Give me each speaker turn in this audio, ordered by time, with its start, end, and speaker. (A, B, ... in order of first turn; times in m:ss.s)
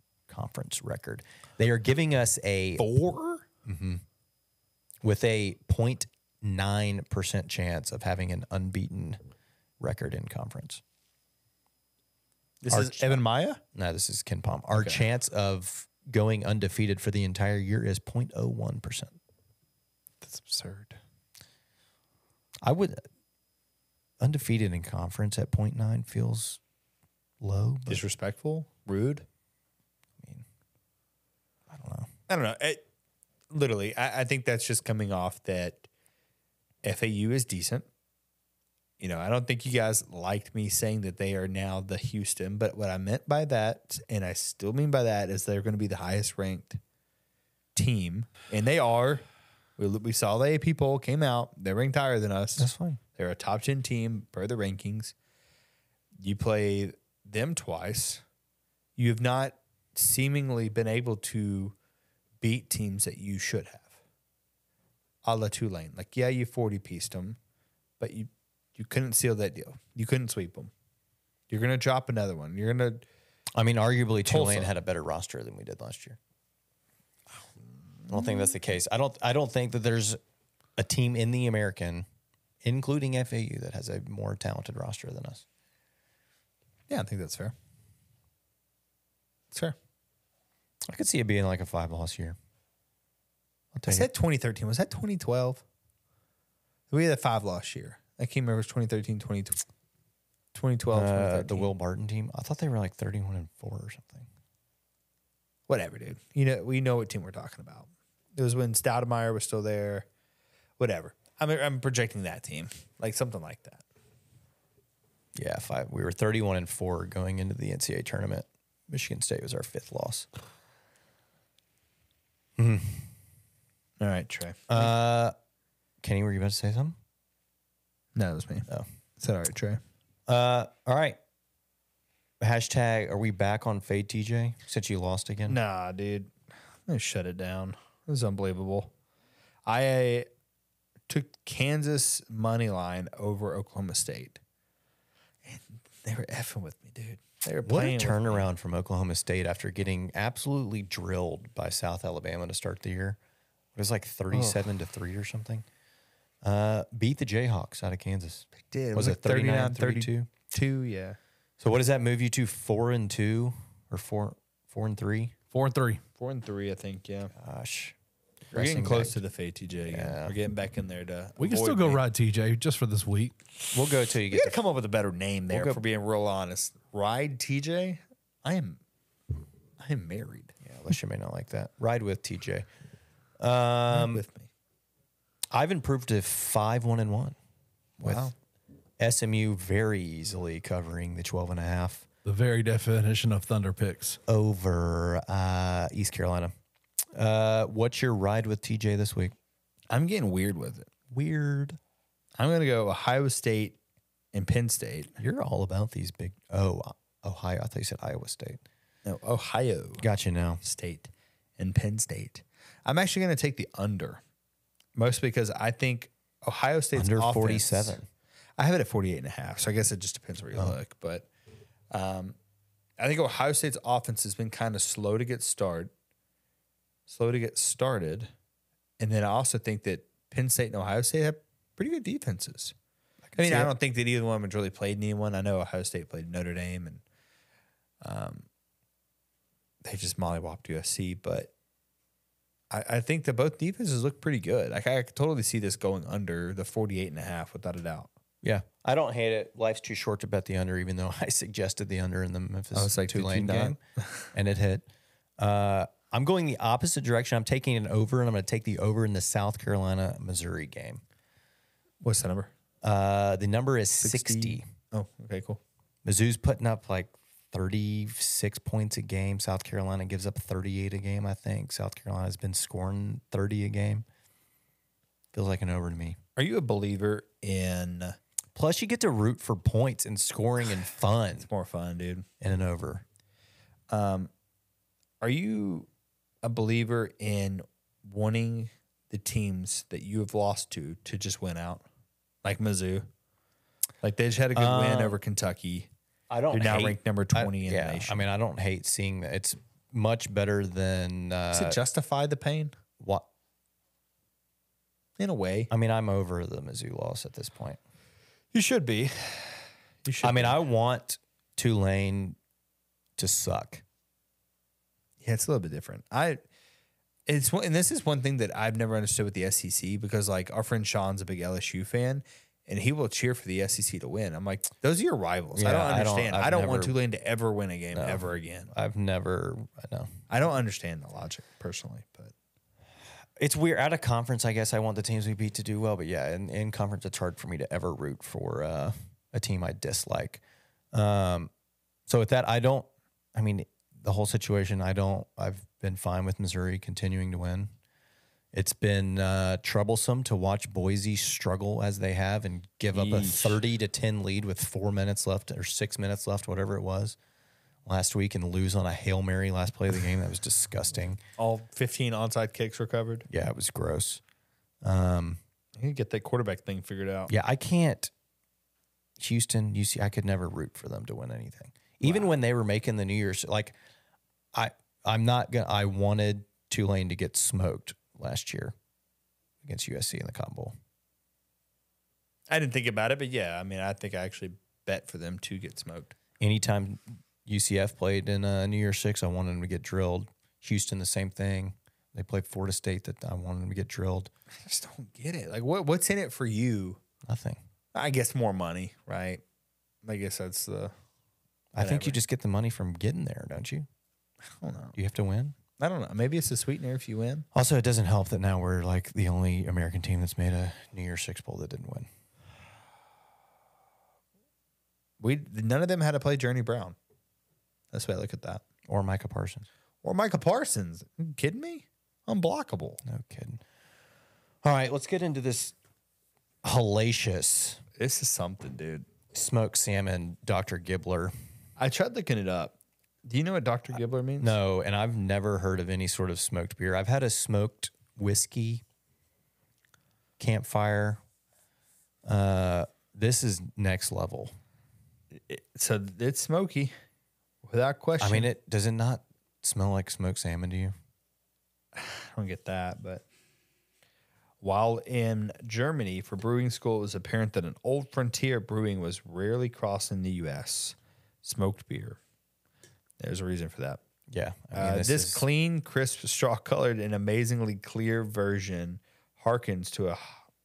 0:00.3-0:02.9 A
0:02.8-0:03.4 B
0:03.6-0:04.0 A
0:05.0-0:09.2 A
0:09.8-0:10.8 A
0:12.6-0:13.6 B
0:12.7-0:13.2 A
0:13.7-0:19.2 A
0:14.7-0:15.0 B
0:20.2-0:21.0 B
0:22.6-0:23.0 A
0:24.2-0:26.6 A
0:27.4-0:28.0 A
0:27.9-0:29.3 B
0:31.7-0:32.1 A
0:32.3-0:32.9 B
0:33.5-0:35.9 B
0:36.8-0:37.9 B
0:39.0-0:46.8 B
0:47.8-0:49.3 B
0:49.8-0:55.1 B
0:52.6-0:53.0 A
0:56.2-0:58.2 B
0:59.0-1:01.8 B
1:02.4-1:04.0 B
1:05.2-1:07.4 B
1:08.0-1:10.7 B
1:11.5-1:13.1 B
1:13.6-1:16.2 A
1:14.2-1:14.7 B
1:18.1-1:18.6 B
1:18.1-1:20.2 A
1:20.8-1:22.1 A
1:22.6-1:25.4 A
1:26.9-1:27.6 B
1:29.5-1:29.8 B
1:30.9-1:32.4 A
1:33.7-1:34.1 A
1:33.9-1:35.6 B
1:36.9-1:39.6 B
1:40.5-1:41.7 B
1:40.9-1:44.3 A
1:45.7-1:50.1 B
1:50.8-1:53.8 B
1:55.4-2:00.3 A
2:02.6-2:03.1 A
2:04.0-2:04.9 B
2:04.7-2:05.4 A
2:06.0-2:07.0 A
2:08.2-2:09.8 B
2:10.3-2:11.2 A
2:12.4-2:15.6 A
2:15.5-2:16.3 B
2:16.9-2:18.9 B
2:19.6-2:20.3 B
2:21.1-2:24.4 B
2:25.4-2:28.5 B
2:27.6-2:33.2 A
2:33.8-2:35.6 A
2:34.3-2:34.7 B
2:36.4-2:40.3 A
2:38.6-2:41.2 B
2:41.6-2:45.4 A
2:45.5-2:46.0 C
2:46.2-2:47.3 B
2:47.4-2:48.0 A
2:48.5-2:49.2 A
2:48.5-2:52.0 B
2:49.9-2:50.4 A
2:51.4-2:53.4 C
2:53.7-2:54.6 A
2:54.3-2:58.8 B
2:55.5-2:55.8 A
2:59.8-3:00.5 B
3:00.6-3:02.7 A
3:03.4-3:04.2 A
3:03.9-3:04.5 B
3:05.5-3:07.4 A
3:08.0-3:08.3 B
3:08.0-3:08.3 A
3:09.0-3:12.1 A
3:12.2-3:14.2 C
3:14.3-3:16.5 A
3:17.2-3:19.4 A
3:19.9-3:20.9 B
3:21.1-3:21.8 A
3:22.4-3:23.8 B
3:24.3-3:25.1 B
3:25.2-3:28.6 A
3:29.0-3:30.0 B
3:30.0-3:30.6 A
3:30.6-3:34.2 B
3:35.0-3:38.0 B
3:37.0-3:38.1 A
3:38.6-3:41.3 B
3:41.9-3:42.4 B
3:43.0-3:45.9 B
3:47.1-3:48.3 B
3:49.0-3:52.7 B
3:53.3-3:53.7 A
3:53.4-3:57.0 B
3:58.0-3:58.5 B
3:59.8-4:01.5 B
4:02.7-4:08.1 B
4:08.4-4:13.8 A
4:12.7-4:14.3 B
4:14.3-4:14.8 A
4:15.4-4:21.0 A
4:22.0-4:22.5 B
4:22.8-4:24.7 A
4:24.0-4:25.6 B
4:26.0-4:34.0 A
4:35.3-4:36.2 A
4:36.4-4:38.2 B
4:38.6-4:41.5 A
4:41.4-4:42.3 B
4:42.4-4:43.0 A
4:43.9-4:44.3 B
4:45.2-4:45.9 B
4:46.4-4:51.9 B
4:52.4-4:53.1 B
4:54.0-4:55.9 B
4:54.5-4:55.2 A
4:56.3-5:01.8 A
4:56.5-4:58.2 B
5:01.5-5:02.7 B
5:03.0-5:03.3 A
5:05.2-5:05.7 B
5:05.7-5:07.8 A
5:08.5-5:10.6 B
5:10.2-5:12.4 A
5:13.2-5:13.8 A
5:15.2-5:16.4 B
5:17.3-5:28.7 B
5:25.6-5:27.0 A
5:27.9-5:30.1 A
5:30.3-5:32.3 B
5:33.4-5:40.4 A
5:40.9-5:41.5 A
5:42.1-5:47.7 A
5:48.5-5:57.2 A
5:52.9-5:53.6 B
5:57.8-6:01.2 A
6:01.4-6:03.3 B
6:03.3-6:04.2 A
6:04.8-6:05.4 A
6:05.8-6:07.3 B
6:07.3-6:08.1 A
6:09.2-6:13.8 A
6:12.0-6:12.3 B
6:14.5-6:18.8 A
6:19.6-6:20.8 A
6:22.5-6:26.2 B
6:26.4-6:34.3 A
6:34.6-6:37.0 B
6:37.3-6:37.6 A
6:37.9-6:39.4 B
6:40.0-6:40.9 B
6:41.7-6:43.9 A
6:41.8-6:42.2 B
6:44.4-6:45.0 B
6:45.0-6:45.6 A
6:45.8-6:47.5 B
6:47.5-6:52.1 A
6:55.2-6:57.0 B
6:57.9-6:58.6 B
6:58.9-6:59.7 A
7:00.0-7:03.0 B
7:03.1-7:03.6 A
7:04.6-7:05.8 A
7:06.6-7:07.8 A
7:08.0-7:09.1 B
7:09.3-7:11.3 A
7:11.8-7:14.6 B
7:14.4-7:18.8 A
7:20.4-7:21.2 A
7:22.3-7:24.5 A
7:25.5-7:26.9 B
7:27.6-7:28.5 B
7:28.2-7:31.0 A
7:31.9-7:33.2 B
7:34.6-7:42.2 B
7:43.2-7:44.0 B
7:44.3-7:45.5 A
7:44.7-7:50.4 B